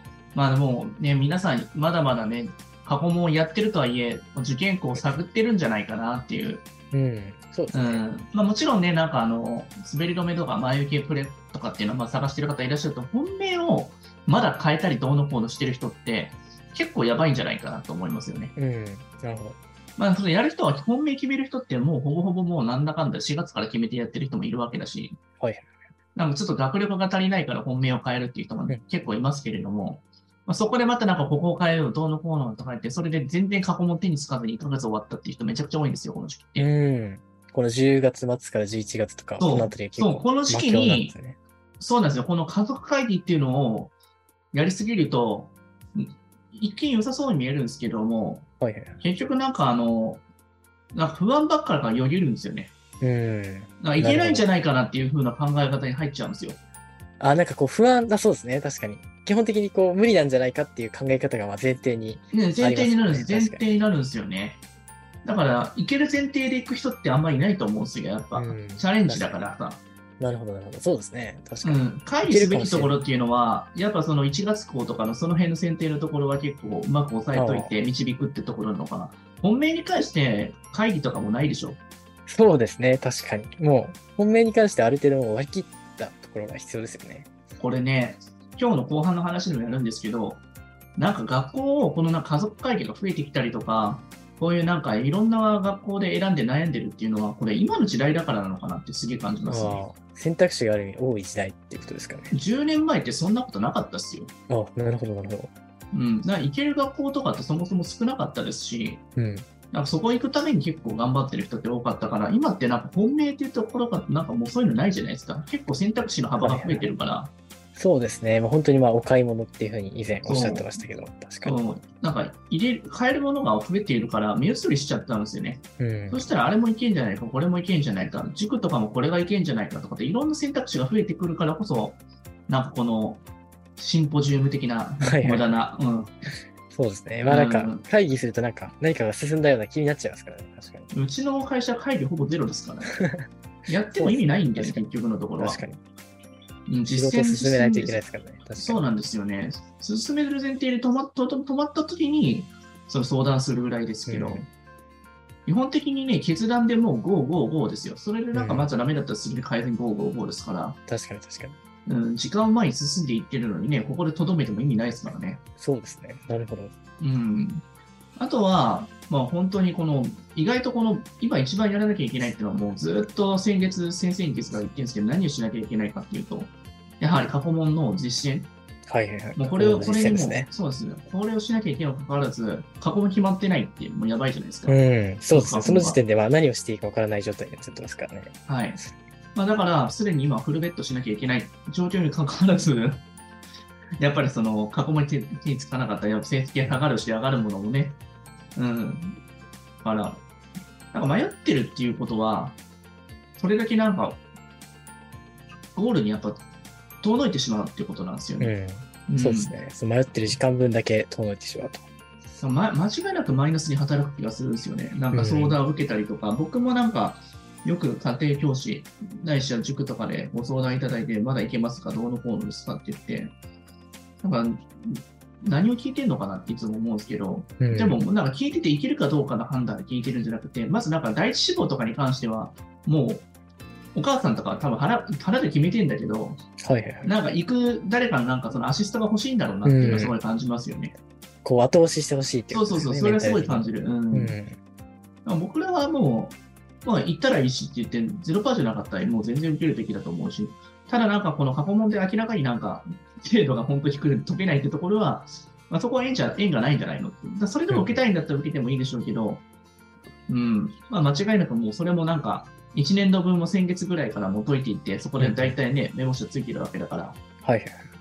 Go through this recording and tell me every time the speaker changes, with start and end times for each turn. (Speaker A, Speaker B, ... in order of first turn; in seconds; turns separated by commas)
Speaker A: 0.3-6.7, Speaker B: 6.9-8.0, Speaker A: 7.7-18.5, Speaker B: 18.6-19.6, Speaker A: 20.0-25.2, Speaker B: 25.4-25.7, Speaker A: 26.1-36.6, Speaker B: 36.6-41.4, Speaker A: 39.4-41.1, Speaker A: 41.8-43.9, Speaker A: 44.5-48.5, Speaker B: 48.6-49.0, Speaker A: 49.0-50.2, Speaker A: 50.9-52.7, Speaker B: 53.0-54.5, Speaker A: 53.8-56.6, Speaker B: 57.2-63.6, Speaker A: 62.3-64.6, Speaker A: 65.2-69.8, Speaker B: 68.3-69.5, Speaker B: 70.2-73.0, Speaker A: 71.6-81.8, Speaker B: 77.3-77.7, Speaker B: 82.3-87.3, Speaker A: 87.6-90.4, Speaker A: 91.0-99.8, Speaker B: 99.5-102.3, Speaker A: 102.3-104.3, Speaker B: 104.5-105.5, Speaker A: 105.9-109.0, Speaker B: 109.2-109.5, Speaker A: 109.7-117.3, Speaker B: 116.4-116.9, Speaker B: 117.8-121.6, Speaker A: 120.2-120.7, Speaker A: 121.4-133.2, Speaker B: 125.8-126.2, Speaker A: 133.8-136.3, Speaker B: 135.0-135.5, Speaker B: 136.7-140.9, Speaker A: 137.2-137.8, Speaker A: 140.9-143.0, Speaker B: 143.0-143.3, Speaker A: 143.7-145.6, Speaker B: 143.9-144.8, Speaker B: 145.4-145.8, Speaker A: 146.7-148.0, Speaker B: 146.9-148.9, Speaker A: 148.6-154.4, Speaker B: 154.1-154.5, Speaker A: 155.4-160.8, Speaker B: 158.3-158.7, Speaker B: 160.9-161.6, Speaker A: 161.8-165.4, Speaker B: 165.6-166.7, Speaker A: 167.0-167.6, Speaker A: 168.2-178.5, Speaker B: 178.9-180.5, Speaker A: 179.3-184.8, Speaker B: 184.7-188.9, Speaker A: 185.3-186.0, Speaker A: 188.5-188.8, Speaker A: 189.3-193.0, Speaker A: 194.0-198.0, Speaker A: 198.6-199.2, Speaker A: 199.8-200.2, Speaker A: 200.9-202.6, Speaker A: 203.4-204.2, Speaker A: 205.7-206.4, Speaker A: 207.0-208.5, Speaker B: 208.4-211.8, Speaker A: 209.1-209.5, Speaker A: 212.3-223.3, Speaker B: 215.1-215.6, Speaker A: 224.2-233.2, Speaker B: 227.6-228.0, Speaker A: 233.9-236.4, Speaker B: 236.6-237.1, Speaker A: 237.0-240.9, Speaker B: 239.6-240.1, Speaker B: 241.4-244.6, Speaker A: 242.5-244.3, Speaker A: 245.2-259.4, Speaker B: 257.7-258.0, Speaker A: 260.3-267.2, Speaker B: 265.2-265.6, Speaker B: 267.4-267.9